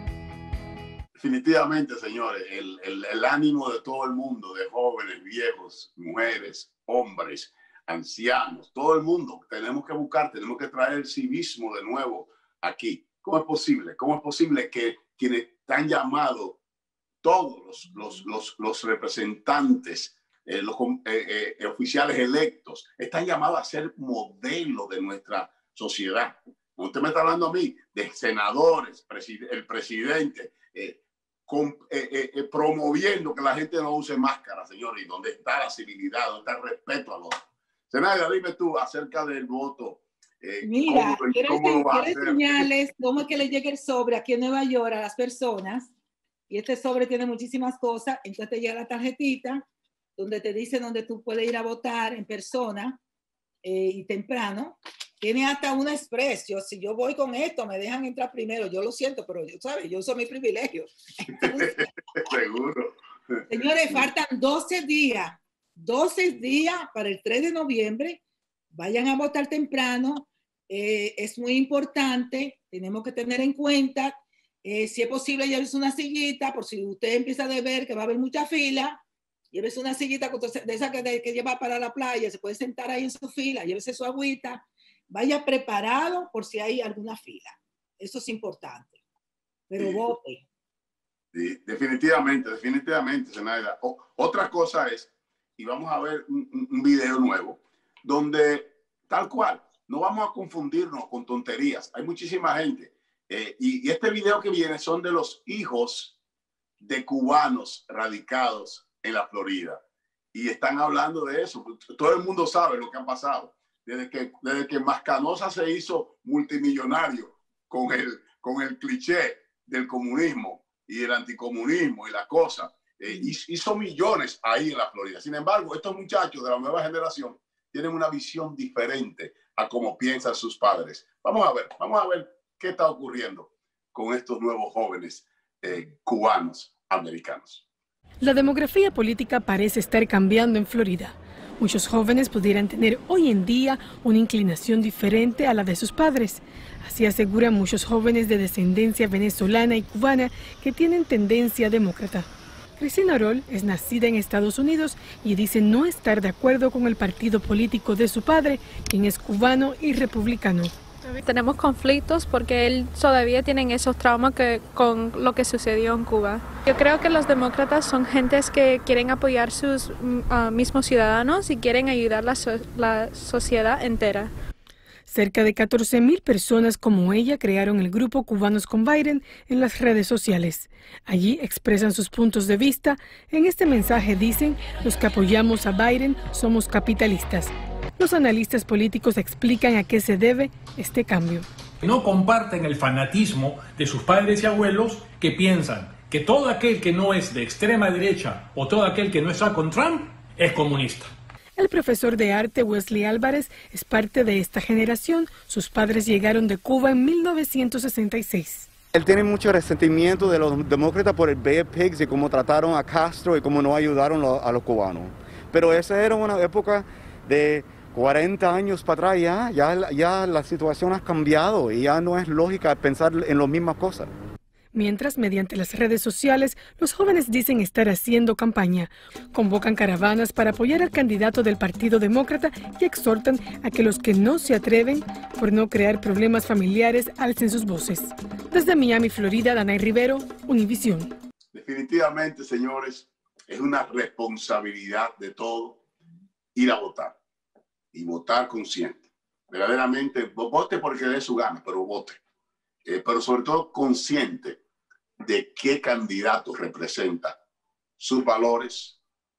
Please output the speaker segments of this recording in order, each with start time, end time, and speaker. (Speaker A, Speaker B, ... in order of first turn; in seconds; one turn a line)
Speaker A: 1.2-16.6
Speaker A: 17.2-37.4
Speaker A: 37.9-42.7
Speaker B: 40.6-45.9
Speaker B: 46.5-49.7
Speaker B: 50.2-53.0
Speaker B: 53.6-61.8
Speaker A: 61.3-62.9
Speaker B: 63.5-68.2
Speaker B: 68.7-79.0
Speaker B: 79.5-89.0
Speaker B: 89.7-90.4
Speaker A: 89.8-90.0
Speaker A: 91.3-106.2
Speaker A: 106.8-109.8
Speaker A: 110.3-137.6
Speaker C: 138.2-152.3
Speaker C: 152.8-160.7
Speaker D: 161.1-174.3
Speaker C: 175.1-191.4
Speaker E: 191.8-201.1
Speaker C: 201.6-208.7
Speaker F: 208.9-224.1
Speaker C: 224.7-241.1
Speaker A: 241.5-245.8
Speaker A: 246.6-247.2
Speaker A: 247.9-252.2
Speaker A: 252.8-254.6
Speaker A: 255.2-257.4
Speaker A: 258.0-259.0